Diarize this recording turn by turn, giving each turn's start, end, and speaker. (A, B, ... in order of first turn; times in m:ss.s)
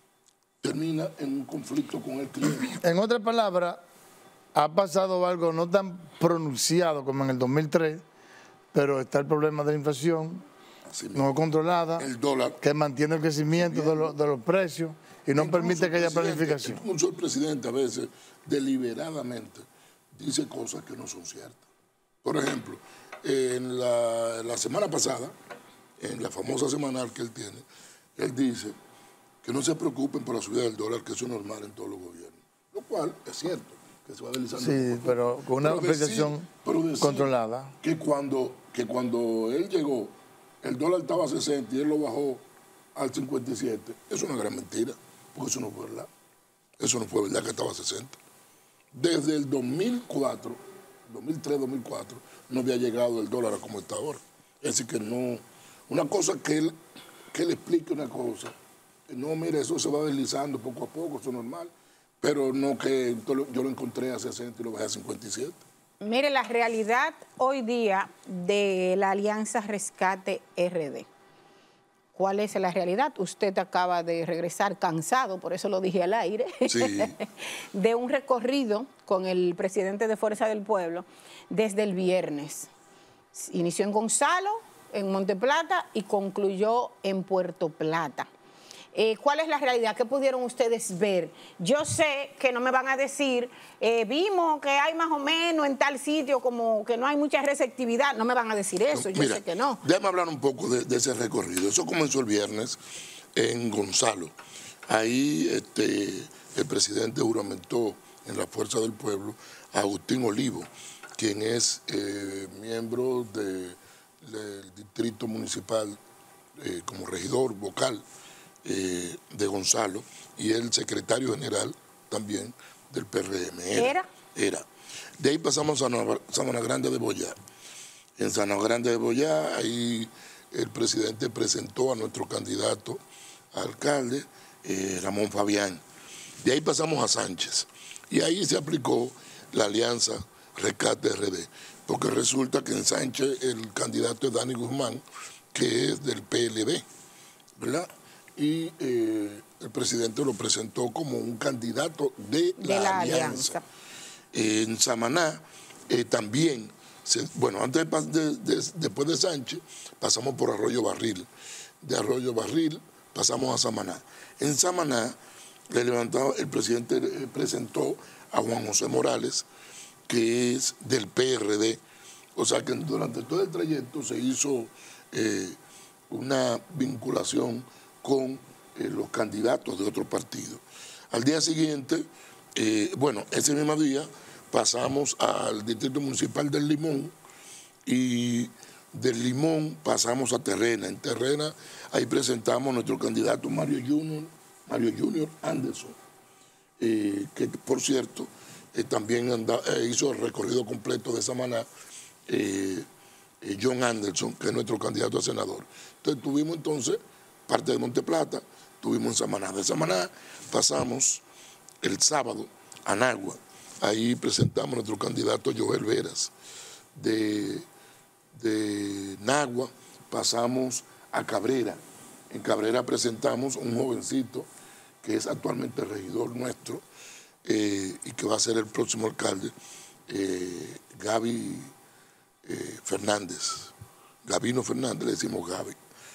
0:00.6-0:02.8 A
0:02.8-0:03.8 B
0:04.5-0:08.0 B
0:08.7-0:10.4 B
0:10.9-0:11.4 A
0:11.1-0:12.1 B
0:12.0-0:12.6 A
0:12.6-0:16.8 B
0:13.5-0:14.2 A
0:15.4-0:21.6 A
0:22.2-0:25.4 A
0:26.0-0:28.8 A
0:29.4-0:42.4 A
0:34.6-0:36.5 B
0:37.0-0:37.7 B
0:43.0-0:46.1 A
0:46.8-0:48.2 A
0:48.9-0:56.8 A
0:57.3-0:58.5 A
0:59.1-1:05.6 A
1:06.0-1:11.1 C
1:12.1-1:22.7 C
1:16.7-1:17.2 A
1:23.3-1:28.3 C
1:28.9-1:39.8 C
1:38.9-1:42.8 A
1:43.4-1:44.3 A
1:44.9-1:56.0 A
1:56.6-1:58.0 A
1:58.6-2:04.6 A
2:03.8-2:04.1 C
2:05.2-2:07.4 A
2:08.2-2:13.0 A
2:13.5-2:15.8 A
2:16.4-2:26.8 A
2:27.6-2:33.6 A
2:32.6-2:33.6 C
2:34.3-2:41.3 A
2:41.8-2:45.2 A
2:45.7-2:49.5 A
2:50.1-2:51.8 A
2:52.4-2:55.6 A
2:56.1-3:07.1 A
3:07.9-3:16.0 A
3:16.8-3:21.6 A
3:22.3-3:22.9 A
3:23.4-3:31.2 A
3:31.8-3:36.3 A
3:37.0-3:37.7 A
3:38.3-3:44.5 A
3:45.0-3:46.8 A
3:47.4-3:49.5 A
3:50.1-3:51.7 A
3:52.4-3:55.8 A